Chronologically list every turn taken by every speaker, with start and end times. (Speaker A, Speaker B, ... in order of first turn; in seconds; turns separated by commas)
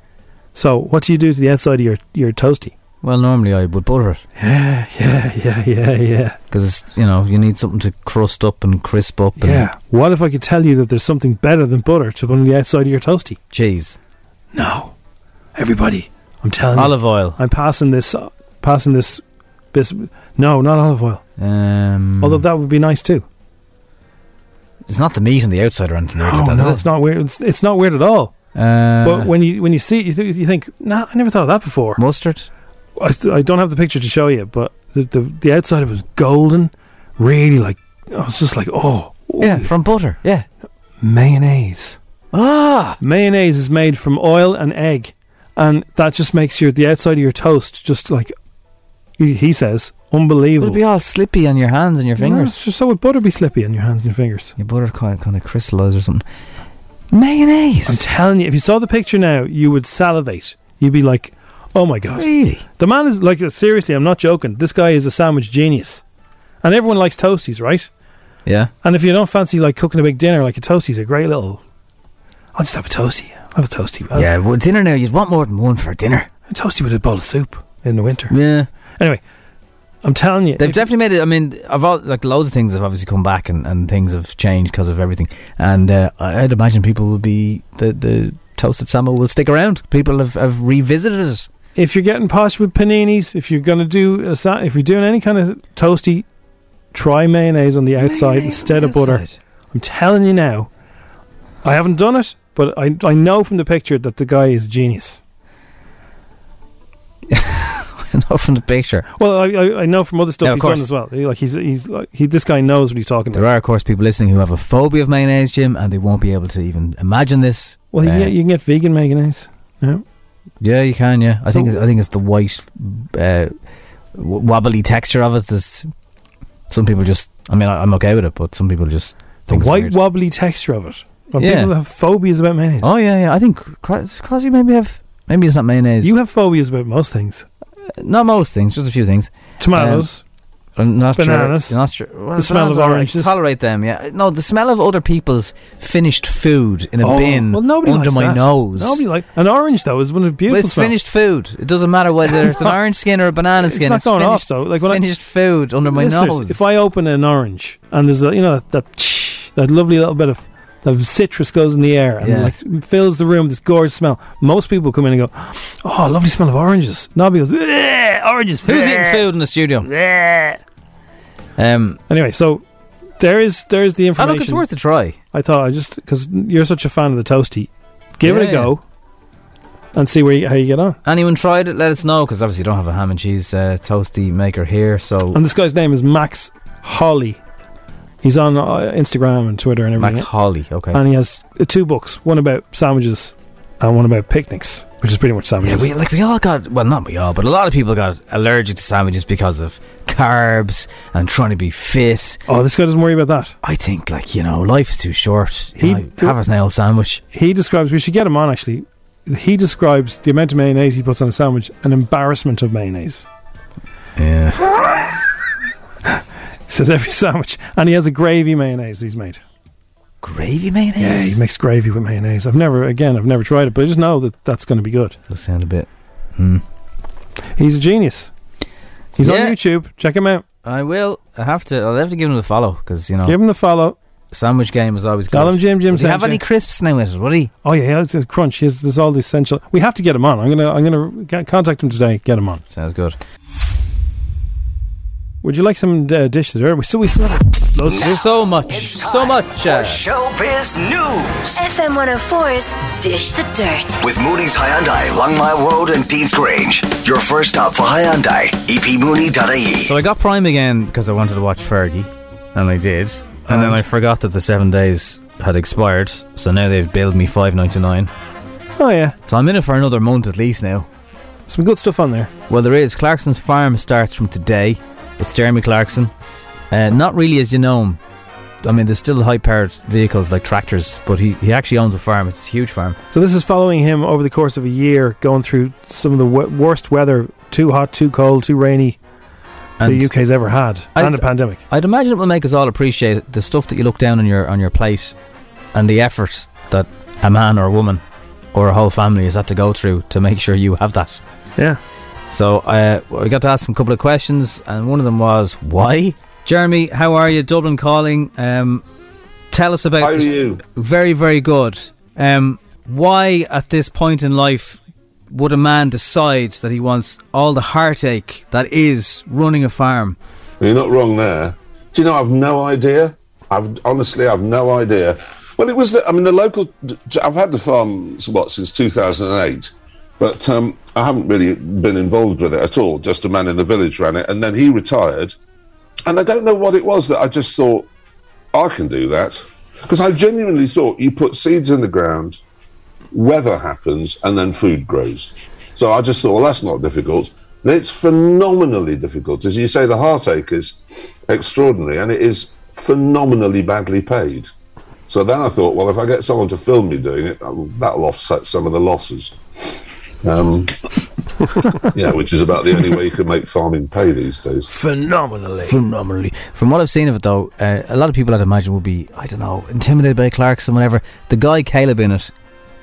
Speaker A: 0.5-2.7, Speaker B: 3.0-4.2, Speaker A: 4.4-6.4, Speaker B: 6.5-9.7, Speaker A: 9.4-13.4, Speaker B: 13.5-14.0, Speaker A: 14.5-14.9, Speaker A: 15.6-21.2, Speaker B: 16.7-17.4, Speaker B: 21.4-22.5, Speaker A: 22.2-23.2, Speaker B: 24.9-26.8, Speaker A: 26.2-28.3, Speaker B: 28.5-29.3, Speaker A: 29.0-32.0, Speaker B: 32.0-32.5, Speaker A: 33.0-39.7, Speaker B: 39.4-40.5, Speaker A: 41.0-42.0, Speaker B: 42.3-43.0, Speaker A: 43.0-48.3, Speaker A: 49.2-50.8, Speaker B: 50.6-52.5, Speaker A: 52.2-54.5, Speaker B: 54.6-56.2, Speaker B: 57.1-58.0, Speaker A: 57.9-62.2, Speaker B: 62.2-62.6, Speaker A: 62.8-66.0, Speaker A: 66.6-67.9, Speaker B: 68.5-68.7, Speaker A: 68.8-71.6, Speaker A: 72.5-74.3, Speaker B: 74.1-76.3, Speaker A: 76.5-78.3, Speaker B: 78.3-78.7, Speaker A: 80.0-80.8, Speaker B: 80.6-91.5, Speaker A: 91.8-96.2, Speaker A: 96.9-100.7, Speaker B: 98.0-99.4, Speaker A: 101.6-105.2, Speaker B: 107.3-109.0, Speaker A: 109.1-113.4, Speaker B: 110.4-110.9, Speaker B: 113.3-118.3, Speaker A: 117.9-120.0, Speaker B: 120.6-123.5, Speaker A: 121.5-121.8, Speaker B: 124.1-125.9, Speaker B: 126.7-130.0, Speaker A: 129.5-132.9, Speaker B: 131.4-131.7, Speaker B: 132.8-136.1, Speaker A: 136.0-137.4, Speaker B: 138.0-140.1, Speaker A: 139.6-140.2, Speaker B: 140.8-149.0, Speaker A: 141.2-141.8, Speaker A: 142.3-143.4, Speaker A: 147.0-150.9, Speaker B: 150.5-156.6, Speaker A: 152.3-152.8, Speaker A: 153.6-155.0, Speaker A: 155.9-169.2, Speaker B: 162.2-162.5, Speaker B: 168.6-169.9, Speaker A: 169.8-170.6, Speaker B: 171.6-172.0, Speaker A: 172.1-172.6, Speaker A: 173.2-174.6, Speaker B: 174.2-175.2, Speaker A: 175.3-178.8, Speaker B: 178.2-178.7, Speaker A: 179.9-181.0, Speaker B: 181.0-185.4, Speaker A: 185.3-187.4, Speaker A: 188.2-190.3, Speaker B: 190.0-191.0, Speaker A: 190.9-195.9, Speaker B: 195.6-202.4, Speaker A: 202.5-203.5, Speaker B: 203.6-207.2, Speaker A: 205.8-206.4, Speaker A: 207.3-213.2, Speaker B: 214.2-214.7, Speaker A: 216.7-219.4, Speaker B: 220.2-221.4, Speaker A: 221.0-225.2, Speaker B: 225.3-226.6, Speaker A: 227.6-228.3, Speaker A: 229.2-230.4, Speaker B: 229.2-229.6, Speaker B: 230.6-233.4, Speaker A: 233.2-233.9, Speaker B: 234.3-237.5, Speaker A: 235.3-236.4, Speaker A: 237.6-242.6, Speaker B: 242.7-243.2, Speaker A: 245.4-248.2, Speaker B: 247.9-250.0, Speaker C: 248.7-251.6, Speaker D: 251.5-254.0, Speaker C: 254.0-259.9, Speaker B: 259.8-268.1, Speaker A: 263.5-263.8, Speaker A: 268.8-269.1, Speaker B: 269.3-270.9, Speaker A: 271.5-272.3, Speaker B: 272.5-276.1, Speaker B: 276.7-278.0, Speaker B: 278.6-283.0, Speaker A: 283.1-289.0, Speaker B: 289.8-290.1, Speaker A: 289.8-291.6, Speaker B: 290.9-295.1, Speaker B: 295.7-298.0, Speaker B: 298.5-301.2, Speaker B: 302.3-308.8, Speaker B: 309.5-314.8, Speaker E: 310.0-310.6, Speaker B: 315.3-320.2, Speaker E: 320.6-335.3, Speaker E: 336.1-337.9, Speaker E: 338.5-342.4, Speaker E: 343.1-350.8, Speaker E: 351.3-354.5, Speaker E: 355.1-359.4, Speaker E: 360.2-360.7, Speaker A: 361.6-361.9, Speaker E: 361.9-364.7, Speaker A: 364.6-365.8, Speaker B: 365.6-372.3